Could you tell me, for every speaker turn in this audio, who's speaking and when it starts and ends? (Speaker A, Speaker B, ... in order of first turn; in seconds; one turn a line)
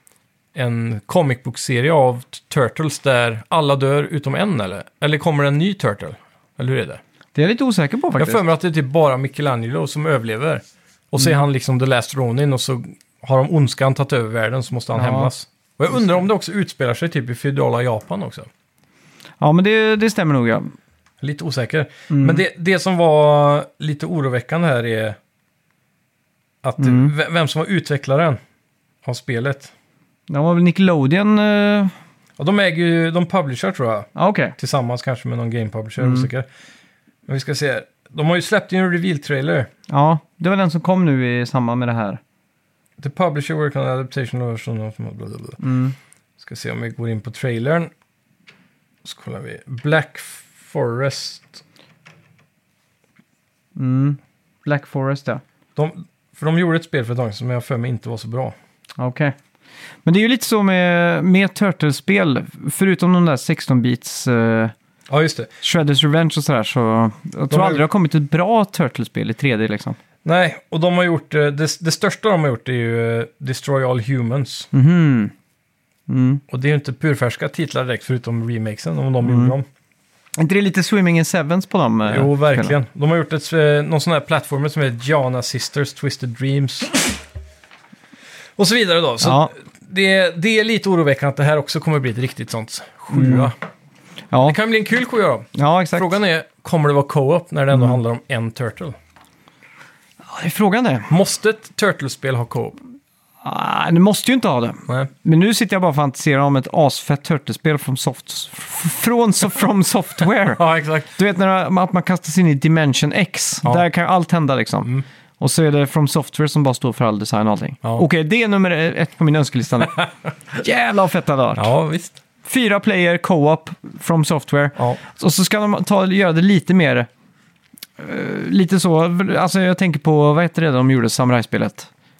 Speaker A: 0.5-7.0
Speaker B: 7.3-8.4
Speaker A: 8.2-18.5
Speaker B: 14.9-15.3
Speaker B: 19.4-20.7
Speaker A: 21.2-25.2
Speaker B: 22.1-22.4
Speaker A: 26.6-28.4
Speaker B: 26.8-27.1
Speaker A: 29.0-29.7
Speaker B: 30.3-31.9
Speaker A: 32.4-36.5
Speaker B: 34.1-34.5
Speaker B: 36.0-36.3
Speaker A: 37.3-39.7
Speaker B: 39.9-42.2
Speaker A: 43.0-45.6
Speaker B: 45.6-45.9
Speaker A: 46.4-47.9
Speaker A: 49.0-51.6
Speaker B: 53.8-55.4
Speaker A: 55.8-58.5
Speaker B: 59.0-59.4
Speaker B: 60.0-64.7
Speaker A: 65.1-65.5
Speaker B: 65.6-70.0
Speaker A: 67.5-67.8
Speaker A: 70.2-74.7
Speaker B: 74.7-75.3
Speaker B: 76.1-76.4
Speaker A: 76.5-79.7
Speaker B: 79.2-79.5
Speaker B: 80.4-82.7
Speaker A: 82.1-87.2
Speaker A: 88.6-93.5
Speaker B: 89.2-89.5
Speaker B: 93.1-93.5
Speaker B: 94.3-94.6
Speaker A: 94.4-99.0
Speaker B: 95.5-96.1
Speaker B: 100.3-101.1
Speaker A: 101.1-102.8
Speaker B: 103.4-110.6
Speaker A: 110.5-111.1
Speaker B: 111.1-121.7
Speaker A: 121.5-122.2
Speaker B: 122.4-127.1
Speaker B: 128.0-131.9